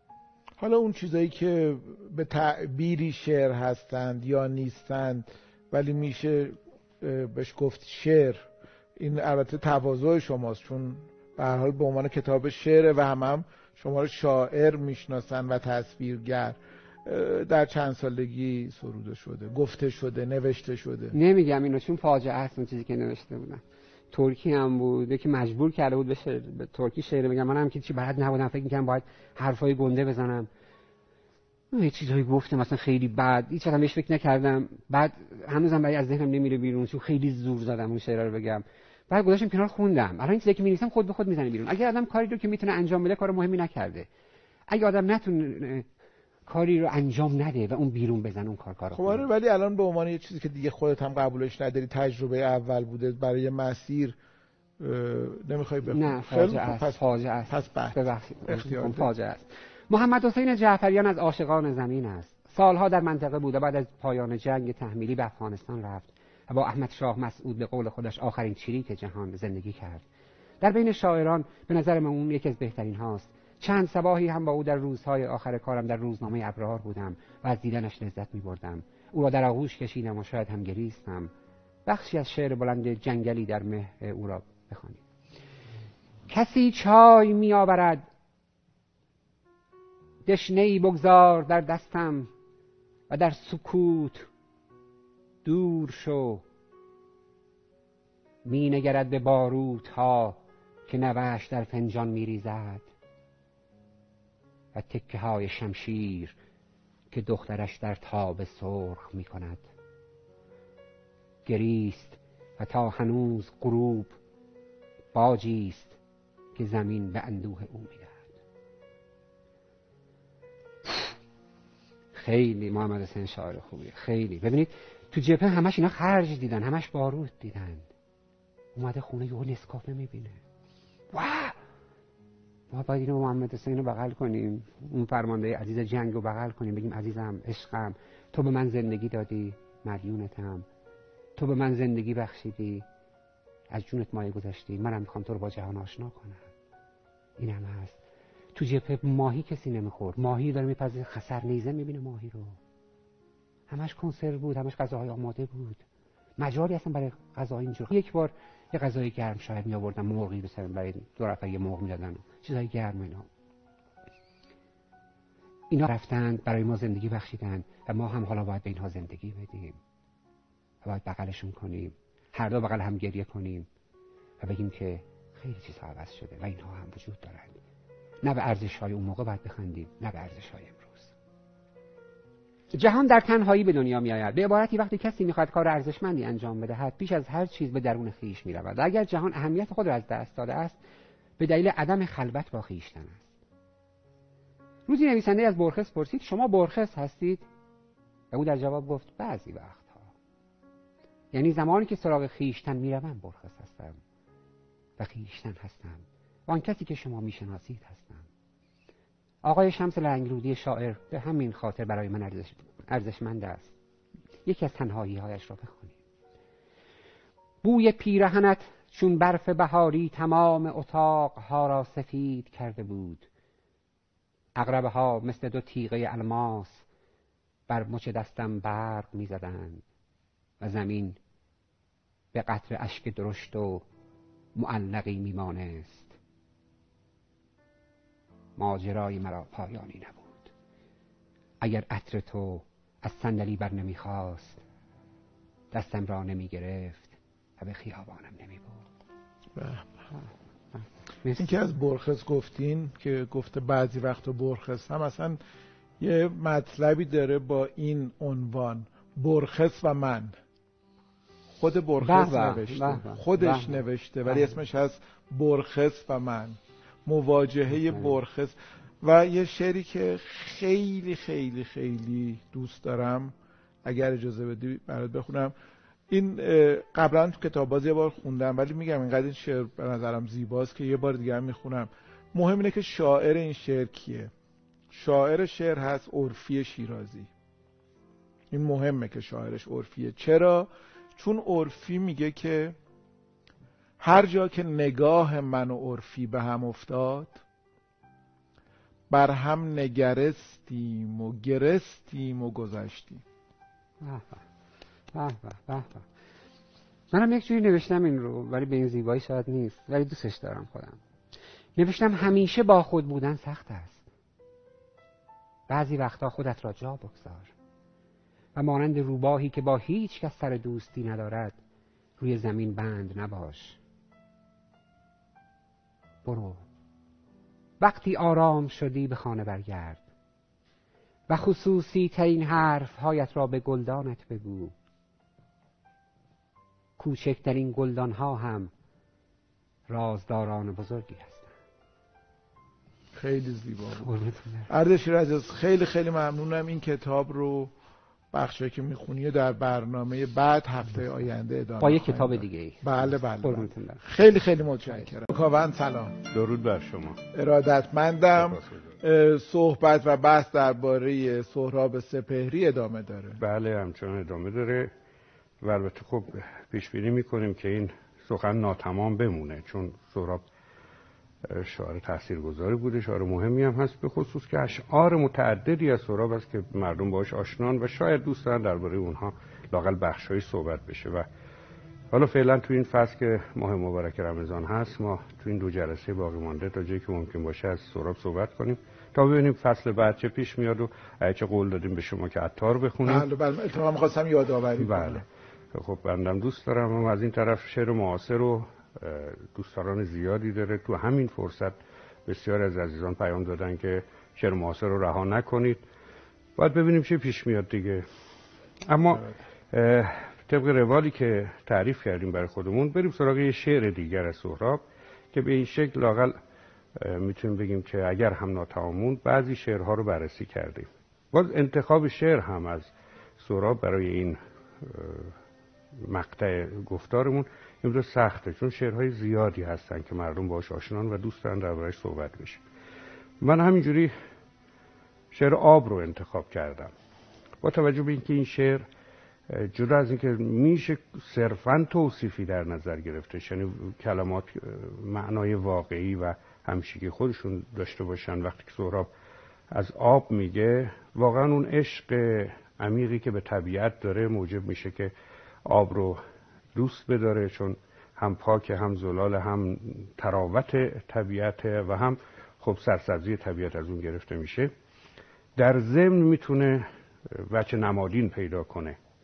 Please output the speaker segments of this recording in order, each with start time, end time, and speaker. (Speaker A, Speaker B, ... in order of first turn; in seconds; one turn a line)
Speaker A: 0.6-21.1
Speaker B: 21.1-30.5
Speaker B: 31.7-44.1
Speaker B: 44.7-45.9
Speaker B: 46.5-49.2
Speaker A: 48.9-54.2
Speaker A: 54.8-59.1
Speaker B: 55.9-70.0
Speaker B: 70.6-81.3
Speaker B: 81.8-85.0
Speaker B: 86.3-88.0
Speaker B: 90.2-92.3
Speaker B: 93.1-94.3
Speaker B: 95.4-96.4
Speaker B: 98.4-102.9
Speaker B: 104.7-106.3
Speaker B: 107.1-109.7
Speaker B: 111.4-114.2
Speaker B: 115.1-116.0
Speaker B: 116.5-118.3
Speaker B: 122.1-127.8
Speaker B: 128.7-130.4
Speaker B: 131.1-131.5
Speaker B: 132.7-140.7
Speaker B: 141.3-142.8
Speaker B: 143.7-146.5
Speaker B: 147.4-148.0
Speaker B: 148.5-152.6
Speaker B: 153.7-155.8
Speaker B: 156.4-163.3
Speaker B: 165.7-169.8
Speaker B: 170.8-173.7
Speaker B: 174.4-177.6
Speaker B: 178.2-181.1
Speaker B: 182.7-190.8
Speaker B: 191.4-193.3
Speaker B: 194.9-197.4
Speaker B: 198.3-200.1
Speaker B: 201.3-204.0
Speaker B: 205.0-208.3
Speaker B: 209.4-213.7
Speaker B: 214.4-216.0
Speaker B: 217.6-223.3
Speaker B: 224.6-226.8
Speaker B: 227.7-229.8
Speaker B: 230.6-231.2
Speaker B: 232.3-233.8
Speaker B: 234.5-236.2
Speaker B: 238.6-240.5
Speaker B: 241.6-244.6
Speaker B: 245.7-248.8
Speaker A: 249.5-250.0
Speaker B: 250.1-251.6
Speaker A: 251.4-255.4
Speaker A: 256.0-260.3
Speaker A: 261.6-275.5
Speaker B: 262.0-264.5
Speaker A: 276.1-284.3
Speaker A: 284.9-287.3
Speaker A: 288.5-292.8
Speaker A: 294.0-297.4
Speaker A: 299.1-303.2
Speaker B: 304.0-304.4
Speaker B: 305.1-306.1
Speaker B: 307.1-311.0
Speaker B: 311.8-314.1
Speaker B: 315.7-317.5
Speaker B: 318.5-321.6
Speaker B: 322.2-323.8
Speaker B: 326.2-326.6
Speaker B: 327.8-330.1
Speaker B: 331.3-334.7
Speaker B: 337.0-338.7
Speaker B: 339.9-341.5
Speaker A: 343.1-344.1
Speaker B: 344.0-344.7
Speaker A: 344.7-347.7
Speaker A: 348.3-356.2
Speaker B: 351.8-354.0
Speaker C: 356.3-357.2
Speaker A: 357.3-363.4
Speaker C: 358.4-358.8
Speaker C: 363.4-364.9
Speaker C: 365.6-370.4
Speaker C: 371.4-381.2
Speaker C: 382.1-393.2
Speaker A: 393.0-395.2
Speaker C: 394.8-405.8
Speaker C: 406.6-408.1
Speaker C: 408.9-416.4
Speaker C: 416.9-425.3
Speaker C: 426.0-432.6
Speaker C: 433.4-434.1
Speaker C: 435.3-436.9
Speaker C: 437.6-438.8
Speaker C: 439.5-449.1
Speaker C: 449.7-455.1
Speaker C: 455.6-456.2
Speaker C: 456.7-464.7
Speaker C: 465.6-469.0